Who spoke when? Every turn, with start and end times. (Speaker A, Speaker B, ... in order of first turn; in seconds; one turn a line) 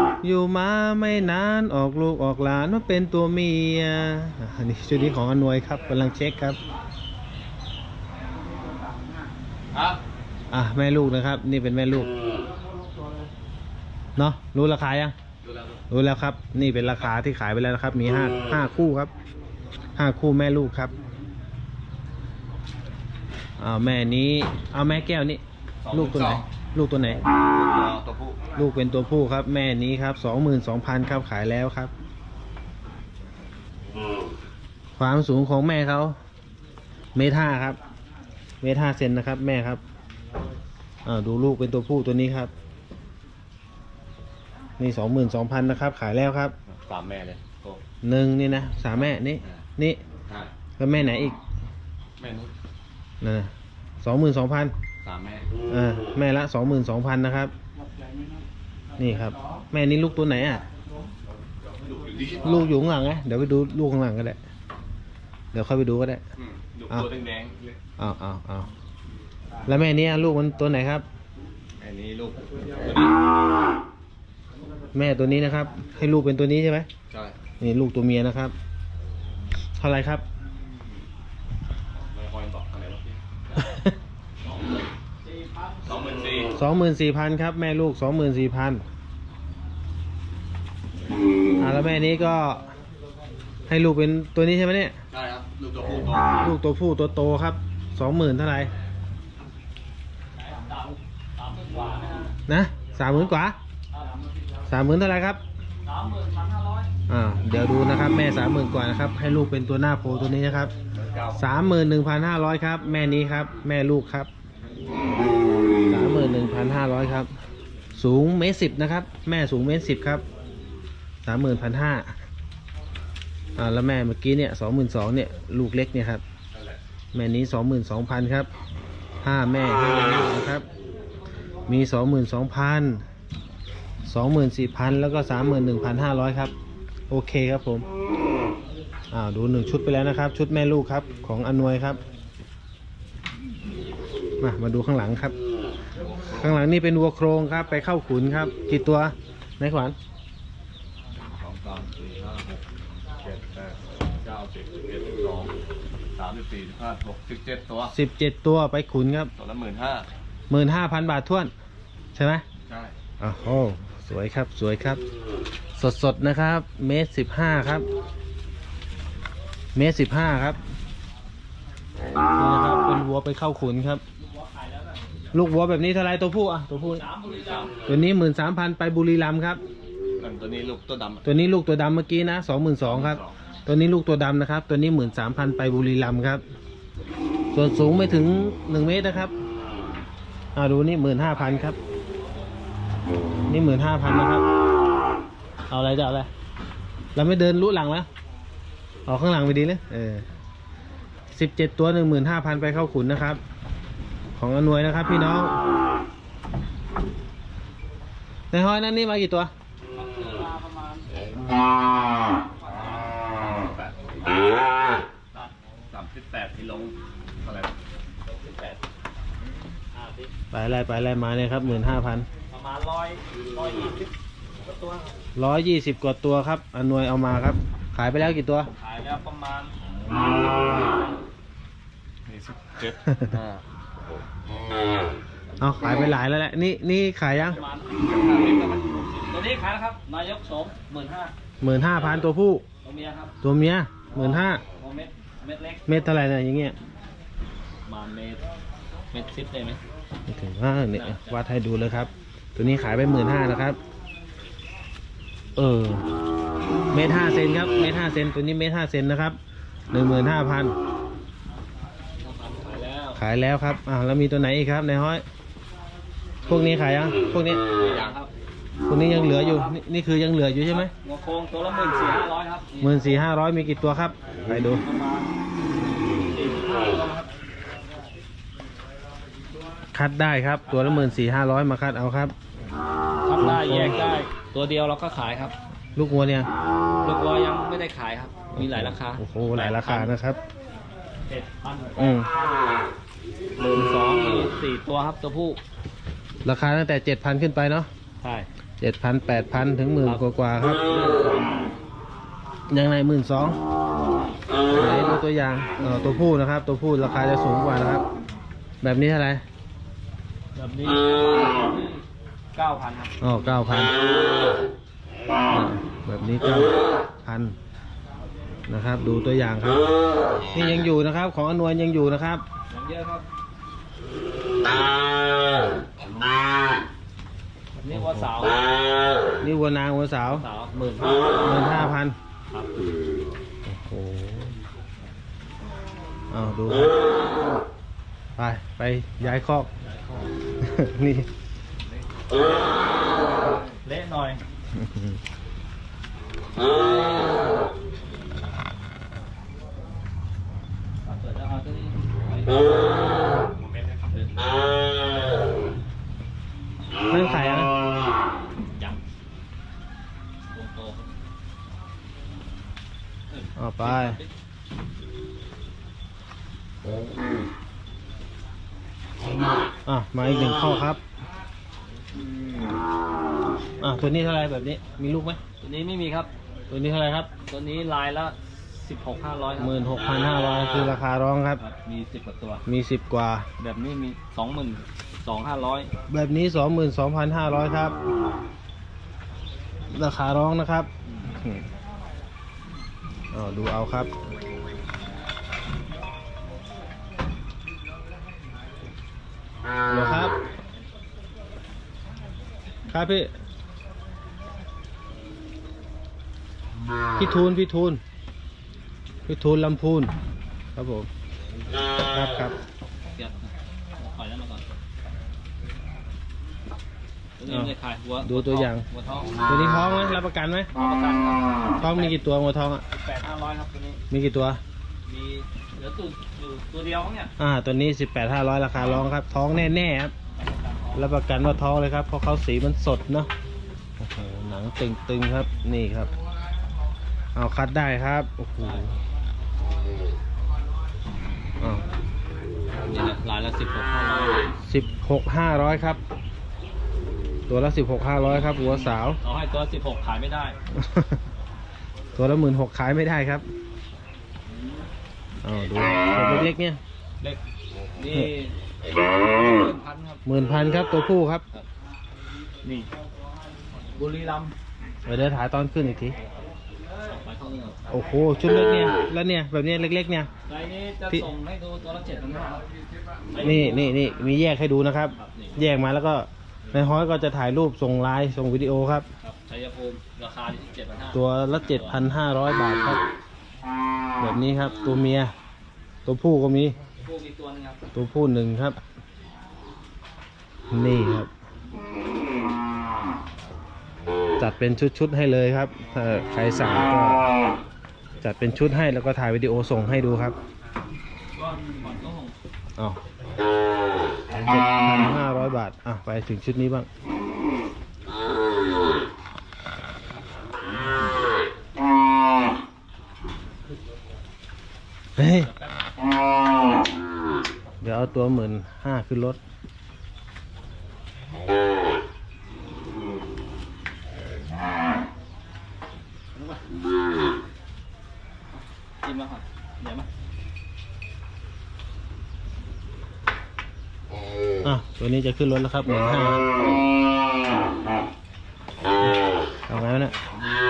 Speaker A: 0.2-6.6
Speaker B: 9.7-10.0
Speaker A: 10.5-12.1
Speaker A: 14.2-15.1
Speaker A: 15.9-19.1
Speaker A: 19.9-20.9
Speaker A: 23.6-27.2
Speaker B: 25.9-26.4
Speaker B: 27.4-28.4
Speaker A: 28.6-31.9
Speaker A: 35.0-36.2
Speaker A: 37.1-37.8
Speaker A: 38.6-39.8
Speaker A: 41.0-42.5
Speaker A: 44.8-46.5
Speaker B: 46.7-47.8
Speaker A: 48.0-50.0
Speaker B: 48.9-49.6
Speaker B: 50.3-50.5
Speaker A: 50.8-51.4
Speaker B: 52.2-52.5
Speaker A: 53.2-54.7
Speaker B: 55.0-55.5
Speaker A: 55.7-57.5
Speaker A: 59.0-60.6
Speaker B: 61.7-62.7
Speaker A: 62.4-64.4
Speaker A: 65.5-66.2
Speaker B: 66.4-67.8
Speaker A: 68.0-68.7
Speaker A: 69.7-71.0
Speaker B: 71.8-73.1
Speaker A: 74.9-76.9
Speaker B: 77.1-77.3
Speaker A: 77.6-78.5
Speaker A: 79.8-80.2
Speaker B: 82.0-83.2
Speaker A: 83.6-83.9
Speaker C: 84.5-85.9
Speaker B: 85.8-86.5
Speaker A: 86.5-88.8
Speaker A: 91.6-92.7
Speaker A: 93.7-95.0
Speaker B: 95.1-96.5
Speaker A: 96.4-98.7
Speaker C: 100.3-102.4
Speaker A: 102.5-103.6
Speaker C: 103.9-104.3
Speaker A: 104.7-105.4
Speaker C: 105.8-106.9
Speaker A: 107.1-110.7
Speaker B: 111.0-111.4
Speaker A: 111.3-114.3
Speaker A: 115.9-117.3
Speaker A: 118.0-120.2
Speaker A: 121.2-122.1
Speaker A: 123.6-126.2
Speaker A: 127.1-128.5
Speaker A: 129.2-130.6
Speaker A: 131.7-133.0
Speaker A: 134.1-136.5
Speaker A: 137.1-137.8
Speaker A: 139.1-142.0
Speaker A: 144.4-145.3
Speaker B: 146.0-146.6
Speaker A: 146.2-149.9
Speaker B: 151.3-155.6
Speaker B: 156.1-157.9
Speaker A: 157.9-159.3
Speaker B: 159.4-160.1
Speaker A: 160.5-161.5
Speaker A: 162.1-162.4
Speaker B: 162.7-162.9
Speaker A: 163.2-165.0
Speaker A: 165.8-167.8
Speaker A: 169.7-170.6
Speaker A: 172.3-174.0
Speaker C: 174.2-175.0
Speaker A: 175.3-177.0
Speaker C: 176.9-177.7
Speaker A: 177.8-179.6
Speaker B: 180.2-181.2
Speaker A: 181.2-186.4
Speaker B: 182.8-183.3
Speaker A: 187.5-189.3
Speaker A: 190.5-191.8
Speaker A: 193.5-194.4
Speaker A: 195.7-196.3
Speaker A: 197.1-198.1
Speaker A: 199.1-200.2
Speaker A: 201.3-203.4
Speaker A: 204.4-205.5
Speaker A: 208.5-209.5
Speaker C: 209.9-211.2
Speaker C: 212.6-213.1
Speaker B: 212.7-214.1
Speaker B: 215.9-217.7
Speaker C: 218.2-218.8
Speaker C: 219.9-220.3
Speaker A: 220.5-222.3
Speaker C: 222.5-225.1
Speaker A: 225.3-228.7
Speaker C: 228.8-229.7
Speaker B: 230.1-230.8
Speaker B: 232.3-233.6
Speaker A: 235.6-237.6
Speaker C: 237.3-241.3
Speaker B: 238.0-239.1
Speaker A: 241.6-242.6
Speaker C: 242.8-243.3
Speaker A: 243.4-244.6
Speaker C: 244.1-245.9
Speaker A: 245.9-246.8
Speaker C: 247.8-248.4
Speaker C: 249.1-249.8
Speaker A: 250.3-253.8
Speaker C: 250.9-251.4
Speaker A: 255.6-256.1
Speaker A: 256.9-259.4
Speaker A: 259.9-260.8
Speaker C: 262.2-263.2
Speaker A: 263.2-265.2
Speaker A: 266.5-267.6
Speaker C: 267.8-268.3
Speaker A: 268.9-270.9
Speaker C: 269.1-269.7
Speaker C: 270.7-273.0
Speaker A: 272.8-274.8
Speaker C: 274.6-275.3
Speaker C: 276.2-277.3
Speaker A: 279.9-282.3
Speaker C: 280.6-281.1
Speaker C: 283.2-285.5
Speaker A: 283.4-284.1
Speaker A: 285.9-286.5
Speaker C: 287.0-290.1
Speaker A: 288.5-290.4
Speaker C: 291.3-292.7
Speaker A: 292.0-292.3
Speaker C: 293.7-295.6
Speaker A: 296.4-297.9
Speaker C: 298.2-298.5
Speaker A: 298.8-300.9
Speaker C: 300.8-301.7
Speaker A: 302.7-303.6
Speaker A: 304.7-308.0
Speaker A: 308.8-309.4
Speaker C: 310.5-313.2
Speaker A: 313.2-313.9
Speaker A: 315.5-317.6
Speaker A: 318.7-319.8
Speaker A: 320.5-322.4
Speaker C: 322.7-323.2
Speaker C: 327.8-328.6
Speaker A: 327.9-328.3
Speaker A: 329.4-330.4
Speaker C: 330.2-331.4
Speaker A: 331.4-332.2
Speaker C: 332.5-332.9
Speaker A: 333.6-334.5
Speaker A: 336.3-336.9
Speaker A: 338.4-339.7
Speaker C: 339.8-340.3
Speaker A: 340.6-341.3
Speaker C: 343.8-344.4
Speaker A: 344.7-345.2
Speaker C: 351.0-353.0
Speaker C: 353.9-354.6
Speaker A: 357.1-357.7
Speaker C: 358.7-359.0
Speaker C: 360.5-361.1
Speaker C: 363.3-364.3
Speaker A: 363.6-364.2
Speaker A: 369.9-371.0
Speaker A: 373.8-375.4
Speaker C: 375.6-376.3
Speaker A: 376.7-377.3
Speaker C: 377.4-379.9
Speaker A: 379.6-381.6
Speaker C: 381.6-382.6
Speaker A: 382.6-383.4
Speaker C: 383.6-385.9
Speaker A: 386.1-387.9
Speaker A: 389.9-391.6
Speaker A: 393.3-394.1
Speaker A: 399.9-400.4
Speaker A: 402.9-403.3
Speaker A: 407.2-408.0
Speaker A: 409.3-410.1
Speaker A: 410.8-411.1
Speaker A: 412.1-412.6
Speaker C: 413.1-414.7
Speaker C: 417.4-419.4
Speaker A: 417.4-418.8
Speaker A: 419.4-420.7
Speaker C: 420.7-422.2
Speaker A: 421.8-422.8
Speaker C: 422.9-424.0
Speaker A: 424.1-424.6
Speaker C: 425.1-427.3
Speaker A: 427.4-430.1
Speaker C: 430.4-431.1
Speaker A: 430.9-433.3
Speaker A: 434.0-436.1
Speaker A: 437.3-439.0
Speaker A: 441.6-441.9
Speaker C: 442.8-444.5
Speaker A: 444.6-446.0
Speaker A: 447.5-449.2
Speaker C: 449.2-450.6
Speaker A: 450.7-451.2
Speaker A: 452.1-453.4
Speaker A: 455.4-456.8
Speaker C: 457.9-458.6
Speaker C: 459.2-460.2
Speaker A: 460.2-461.4
Speaker C: 462.6-462.9
Speaker C: 463.9-464.5
Speaker A: 465.1-466.2
Speaker C: 467.1-467.9
Speaker A: 467.9-470.3
Speaker C: 470.4-472.6
Speaker C: 473.3-473.9
Speaker A: 473.4-479.1
Speaker C: 475.1-475.6
Speaker C: 479.2-482.0
Speaker A: 481.1-483.0
Speaker A: 484.2-485.3
Speaker A: 486.1-486.8
Speaker C: 487.0-487.8
Speaker A: 487.9-488.8
Speaker A: 490.7-491.3
Speaker A: 494.4-497.3
Speaker A: 498.2-500.4
Speaker C: 501.3-502.3
Speaker A: 504.3-506.9
Speaker A: 515.2-515.5
Speaker A: 517.8-519.4
Speaker C: 526.3-526.6
Speaker C: 529.0-530.1
Speaker A: 534.6-536.4
Speaker A: 539.0-540.1